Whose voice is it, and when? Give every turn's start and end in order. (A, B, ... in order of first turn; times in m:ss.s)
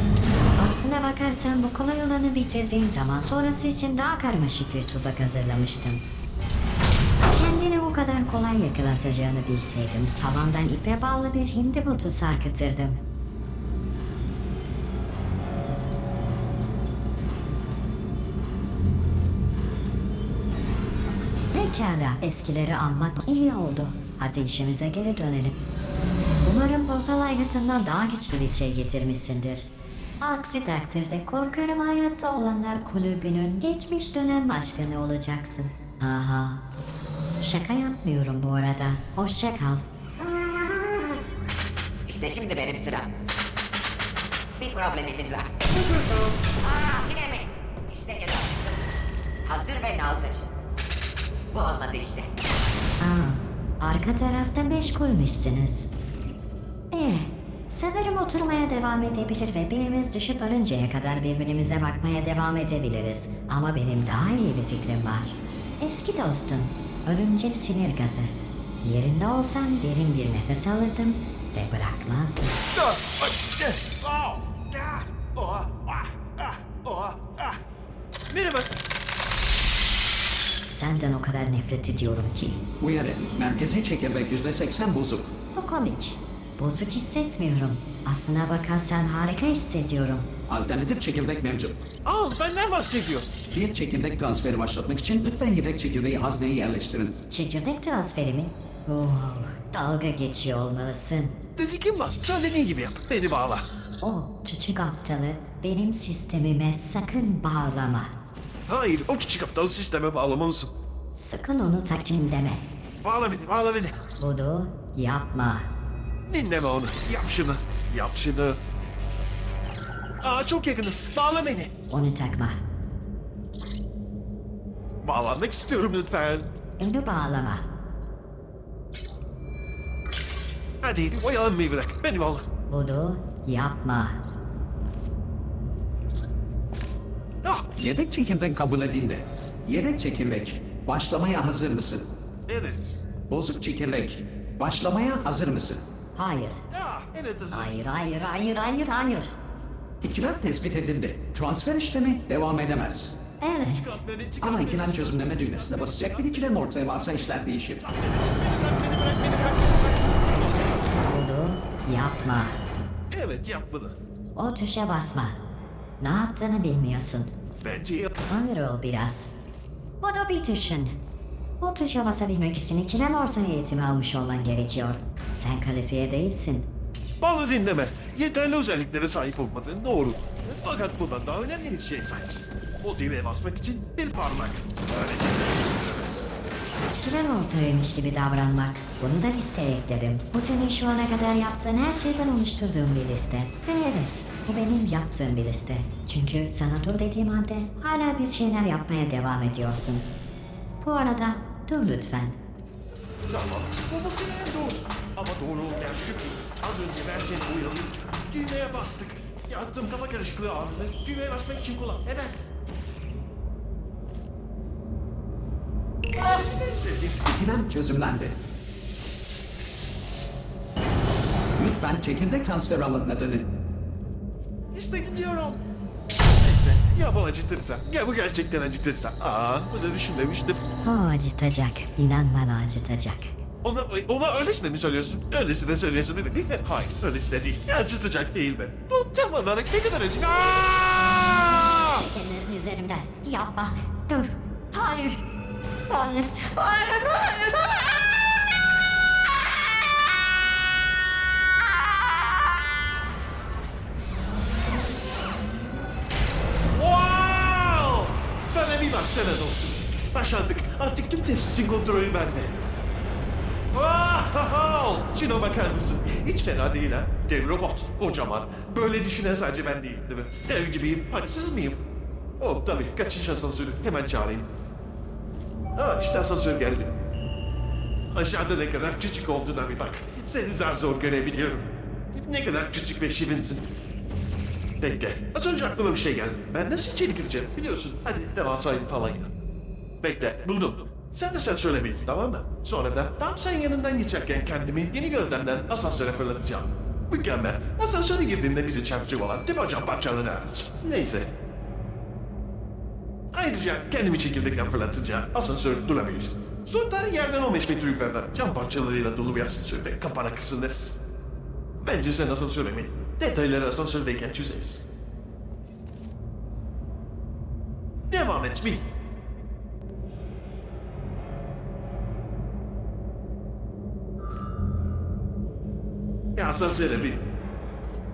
0:00.6-0:06.0 A
0:07.2-0:13.0 A
0:21.5-0:25.6 A
0:26.4-0:29.7 A
0:30.2-0:36.6 A
0:37.4-0:39.8 A
0:42.1-0:43.1 B
0:44.6-0:45.5 B
0:46.6-0:48.7 B
0:49.4-0:50.5 B
0:51.5-0:52.3 B
0:53.0-0:55.9 A
0:56.9-1:12.6 A
1:12.8-1:17.6 C
1:18.3-1:18.7 C
1:20.7-1:22.6 A
1:22.8-1:25.3 D
1:25.5-1:30.3 A
1:30.5-1:31.8 D
1:32.0-1:33.3 C
1:33.5-1:37.1 D
1:37.3-1:41.4 A
1:41.6-1:43.6 C
1:44.0-1:48.1 A
1:48.7-1:50.7 C
1:51.1-1:52.6 A
1:53.0-1:54.0 C
1:54.2-1:55.7 A
1:56.3-1:58.6 C
2:00.2-2:01.7 C
2:01.9-2:02.6 A
2:05.0-2:06.5 C
2:06.8-2:07.6 A
2:10.8-2:12.4 C
2:12.7-2:14.2 A
2:17.7-2:22.1 D
2:22.5-2:23.0 C
2:23.3-2:25.8 D
2:26.1-2:26.6 A
2:26.7-2:27.7 C
2:27.5-2:29.3 A
2:30.0-2:33.2 D
2:33.4-2:34.0 A
2:33.6-2:37.2 C
2:34.4-2:37.8 D
2:37.8-2:40.8 C
2:40.9-2:42.6 A
2:43.1-2:44.0 C
2:44.3-2:45.4 A
2:46.0-2:47.3 A
2:47.6-2:48.2 C
2:48.3-2:49.3 A
2:50.0-2:51.0 A
2:51.6-2:56.7 A
2:57.2-3:06.3 C
3:07.0-3:20.1 A
3:20.8-3:22.4 A
3:23.3-3:32.3 C
3:36.7-3:37.2 C
3:37.2-3:38.4 D
3:41.6-3:43.5 D
3:44.7-3:45.6 C
3:46.4-3:50.6 C
3:50.8-3:53.4 A
3:53.6-4:01.8 C
4:01.8-4:05.2 A
4:05.9-4:08.3 A
4:16.7-4:22.5 C
4:23.7-4:31.8 C
4:32.4-4:34.5 C
4:35.8-4:36.9 C
4:38.1-4:43.6 C
4:44.8-4:49.3 C
4:50.0-5:01.3 C
5:03.3-5:11.0 C
5:11.8-5:14.8 C
5:18.1-5:18.8 C
5:26.4-5:27.2 C